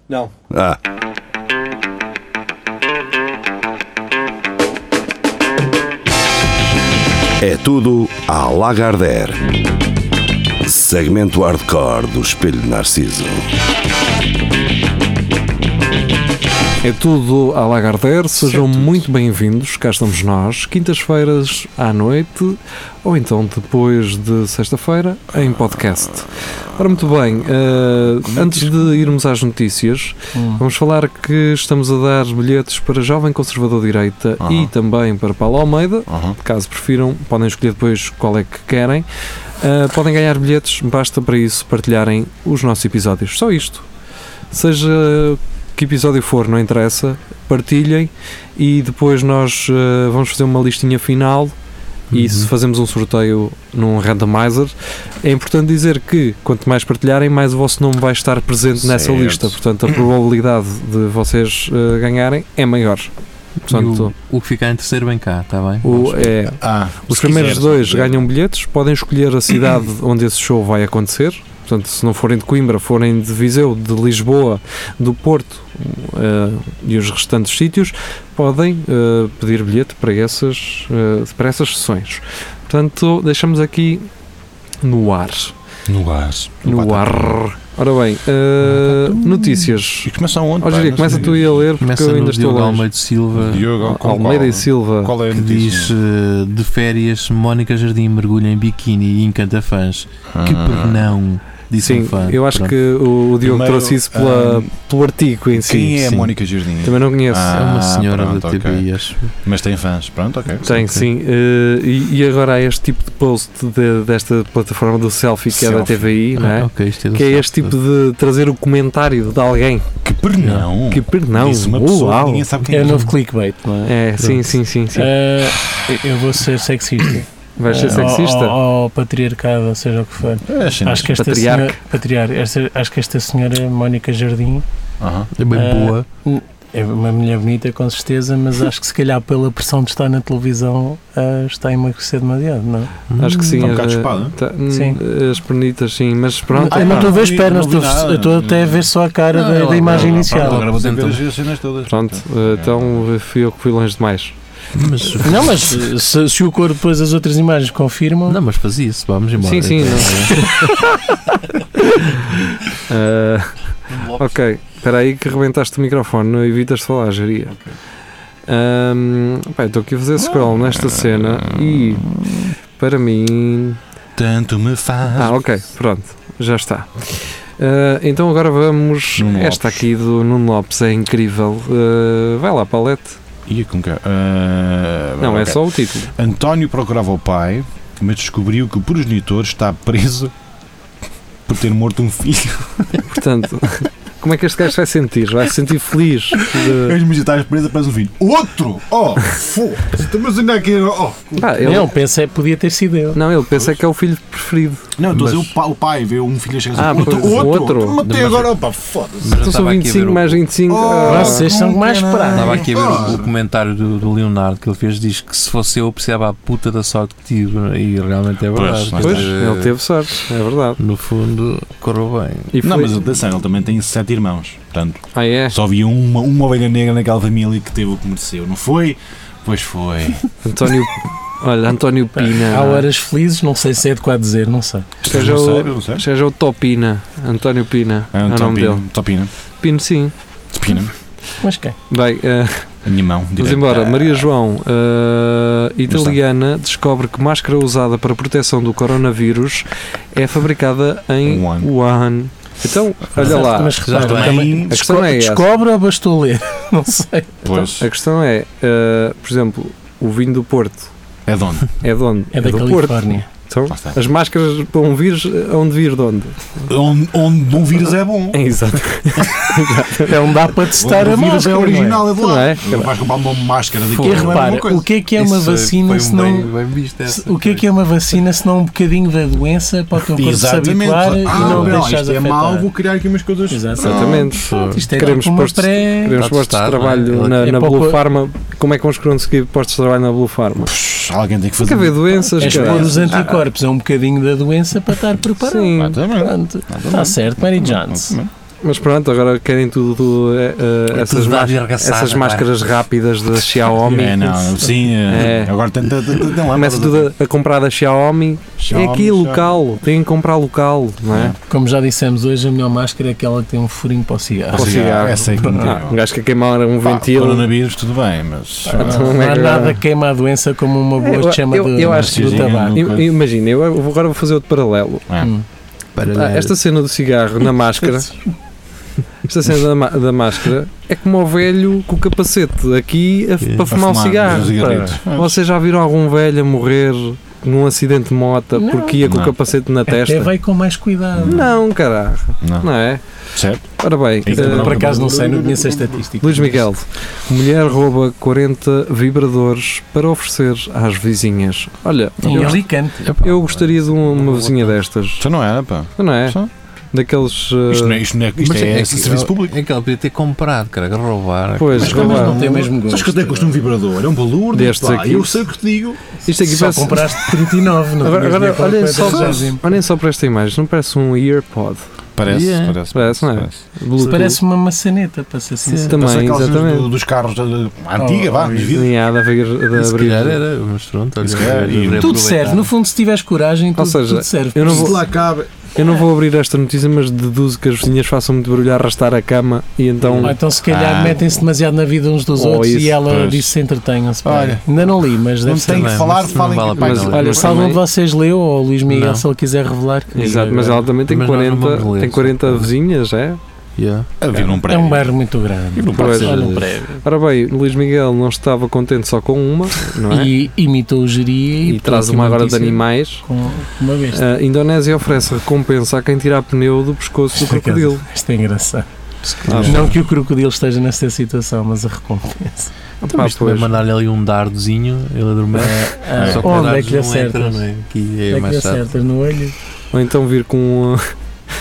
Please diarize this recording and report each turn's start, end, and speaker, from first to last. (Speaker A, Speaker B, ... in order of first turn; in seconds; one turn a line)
Speaker A: 0.5-0.8
Speaker A: 7.4-9.5
Speaker A: 10.6-13.4
Speaker B: 16.8-39.0
Speaker C: 18.4-19.0
Speaker C: 28.2-28.8
Speaker D: 30.3-30.6
Speaker C: 34.4-34.7
Speaker C: 36.1-36.4
Speaker B: 39.6-43.8
Speaker B: 44.5-51.5
Speaker E: 52.1-52.5
Speaker B: 52.1-63.1
Speaker C: 58.8-60.0
Speaker E: 63.6-66.5
Speaker B: 63.7-64.1
Speaker B: 65.8-84.1
Speaker C: 66.6-68.2
Speaker B: 84.8-85.5
Speaker C: 85.9-87.4
Speaker B: 86.6-92.9
Speaker C: 88.6-91.7
Speaker E: 91.0-93.7
Speaker C: 93.3-96.0
Speaker B: 93.8-95.1
Speaker E: 95.3-102.7
Speaker C: 100.3-101.1
Speaker B: 101.8-106.3
Speaker C: 103.4-104.7
Speaker C: 105.5-111.0
Speaker B: 106.8-107.6
Speaker E: 107.5-109.3
Speaker B: 110.6-119.8
Speaker C: 115.5-116.1
Speaker E: 116.4-117.8
Speaker C: 120.0-123.1
Speaker B: 120.9-122.5
Speaker D: 122.7-123.9
Speaker E: 122.8-123.1
Speaker B: 123.8-125.1
Speaker E: 124.2-124.5
Speaker D: 124.9-134.6
Speaker B: 127.6-128.6
Speaker C: 127.7-128.1
Speaker C: 130.4-131.2
Speaker B: 131.1-131.7
Speaker C: 135.0-135.3
Speaker E: 135.4-136.1
Speaker D: 135.5-142.9
Speaker E: 143.1-143.7
Speaker B: 143.2-147.1
Speaker C: 143.6-144.3
Speaker D: 144.7-145.0
Speaker D: 146.5-150.7
Speaker C: 146.7-148.9
Speaker E: 149.3-151.2
Speaker C: 149.8-153.0
Speaker B: 151.9-154.3
Speaker E: 154.7-155.6
Speaker D: 155.2-158.4
Speaker E: 158.3-160.5
Speaker B: 159.4-160.8
Speaker B: 162.9-167.6
Speaker E: 163.9-164.4
Speaker B: 168.5-172.2
Speaker C: 170.2-172.5
Speaker B: 172.8-173.8
Speaker C: 174.2-175.4
Speaker B: 175.2-183.2
Speaker C: 179.2-179.8
Speaker C: 183.5-190.3
Speaker B: 185.2-186.1
Speaker C: 191.5-193.1
Speaker B: 193.1-196.9
Speaker C: 196.5-201.9
Speaker B: 201.3-201.9
Speaker D: 201.6-203.2
Speaker B: 203.1-204.9
Speaker C: 203.5-203.8
Speaker C: 205.0-209.4
Speaker E: 205.1-205.5
Speaker B: 206.8-208.0
Speaker E: 207.0-207.5
Speaker E: 208.0-208.5
Speaker E: 209.2-210.4
Speaker B: 209.4-211.5
Speaker C: 210.7-213.3
Speaker D: 211.0-212.9
Speaker E: 212.3-219.7
Speaker C: 218.5-219.3
Speaker B: 219.0-220.8
Speaker E: 220.8-222.5
Speaker B: 222.5-223.0
Speaker C: 222.6-230.2
Speaker B: 225.1-225.6
Speaker B: 230.4-232.8
Speaker D: 232.2-234.9
Speaker C: 235.0-236.0
Speaker B: 235.1-238.8
Speaker C: 238.1-239.3
Speaker B: 239.6-240.1
Speaker C: 240.5-240.9
Speaker D: 241.4-241.8
Speaker B: 241.9-242.7
Speaker C: 242.8-244.3
Speaker B: 243.4-255.4
Speaker C: 245.9-246.2
Speaker C: 251.2-251.7
Speaker D: 253.1-257.3
Speaker C: 253.2-254.8
Speaker E: 253.8-254.4
Speaker C: 257.4-257.9
Speaker B: 257.5-260.9
Speaker C: 261.2-261.7
Speaker B: 261.8-266.6
Speaker D: 262.3-263.3
Speaker C: 263.7-264.0
Speaker C: 266.7-268.4
Speaker B: 268.3-270.2
Speaker D: 270.0-272.1
Speaker C: 270.7-274.9
Speaker B: 272.2-272.9
Speaker E: 273.9-274.5
Speaker D: 274.0-276.5
Speaker E: 275.1-277.6
Speaker D: 277.1-282.7
Speaker C: 280.1-284.3
Speaker E: 281.3-281.8
Speaker D: 283.5-286.2
Speaker B: 283.8-290.7
Speaker E: 284.3-284.8
Speaker E: 286.2-287.5
Speaker D: 287.4-288.0
Speaker C: 290.6-293.4
Speaker B: 291.6-293.1
Speaker D: 292.4-298.2
Speaker B: 295.4-295.9
Speaker C: 295.7-298.3
Speaker B: 298.6-304.2
Speaker E: 300.9-302.5
Speaker C: 303.8-307.1
Speaker D: 304.0-304.9
Speaker B: 305.1-305.5
Speaker B: 306.5-311.3
Speaker C: 308.6-309.5
Speaker C: 311.1-311.4
Speaker D: 311.5-315.7
Speaker C: 314.5-316.0
Speaker B: 314.5-317.5
Speaker C: 316.8-319.1
Speaker D: 318.6-322.7
Speaker B: 318.7-319.8
Speaker B: 321.0-325.1
Speaker C: 321.8-323.1
Speaker D: 325.2-325.4
Speaker E: 325.9-326.5
Speaker B: 326.1-328.2
Speaker B: 329.3-340.3
Speaker E: 333.4-333.7
Speaker C: 333.7-335.4
Speaker D: 334.6-334.9
Speaker D: 338.5-339.0
Speaker C: 339.0-339.3
Speaker D: 339.9-341.4
Speaker C: 341.1-341.6
Speaker B: 341.2-343.0
Speaker C: 342.4-342.7
Speaker C: 343.3-343.7
Speaker B: 343.8-344.9
Speaker C: 344.2-346.1
Speaker D: 344.3-346.6
Speaker B: 346.2-352.6
Speaker C: 352.2-352.6
Speaker D: 352.2-353.1
Speaker E: 353.0-353.6
Speaker B: 353.2-355.3
Speaker E: 354.2-354.8
Speaker C: 355.2-356.5
Speaker B: 356.0-356.4
Speaker B: 356.9-358.0
Speaker C: 357.7-359.5
Speaker E: 358.4-362.5
Speaker B: 361.6-362.3
Speaker C: 361.8-366.0
Speaker D: 361.8-363.6
Speaker B: 364.5-365.4
Speaker B: 366.2-371.8
Speaker D: 366.4-369.6
Speaker C: 369.0-369.4
Speaker C: 372.2-373.5
Speaker E: 372.3-372.8
Speaker B: 372.9-374.4
Speaker D: 374.0-375.9
Speaker E: 375.6-376.0
Speaker B: 375.9-376.9
Speaker C: 375.9-378.9
Speaker D: 378.0-378.8
Speaker B: 378.7-380.4
Speaker E: 379.7-382.7
Speaker C: 381.2-382.1
Speaker D: 382.0-384.9
Speaker B: 383.8-385.0
Speaker C: 384.6-385.7
Speaker B: 385.7-390.4
Speaker C: 390.0-391.2
Speaker D: 390.2-396.2
Speaker B: 392.4-393.0
Speaker C: 393.0-393.5
Speaker C: 394.2-394.9
Speaker C: 395.4-397.7
Speaker E: 395.6-397.4
Speaker B: 396.7-397.8
Speaker D: 397.1-400.9
Speaker E: 398.9-399.2
Speaker B: 400.1-403.4
Speaker E: 401.1-402.7
Speaker E: 403.8-404.4
Speaker C: 404.2-405.1
Speaker D: 404.6-407.0
Speaker C: 405.7-406.6
Speaker B: 405.9-410.3
Speaker E: 405.9-406.7
Speaker D: 410.1-414.2
Speaker B: 411.6-413.2
Speaker B: 414.1-418.0
Speaker D: 417.3-422.7
Speaker C: 419.4-419.9
Speaker B: 419.5-419.9
Speaker E: 419.6-419.9
Speaker B: 423.0-423.7
Speaker E: 423.0-428.8
Speaker D: 425.5-427.6
Speaker C: 426.2-426.6
Speaker D: 428.3-429.5
Speaker B: 429.9-431.1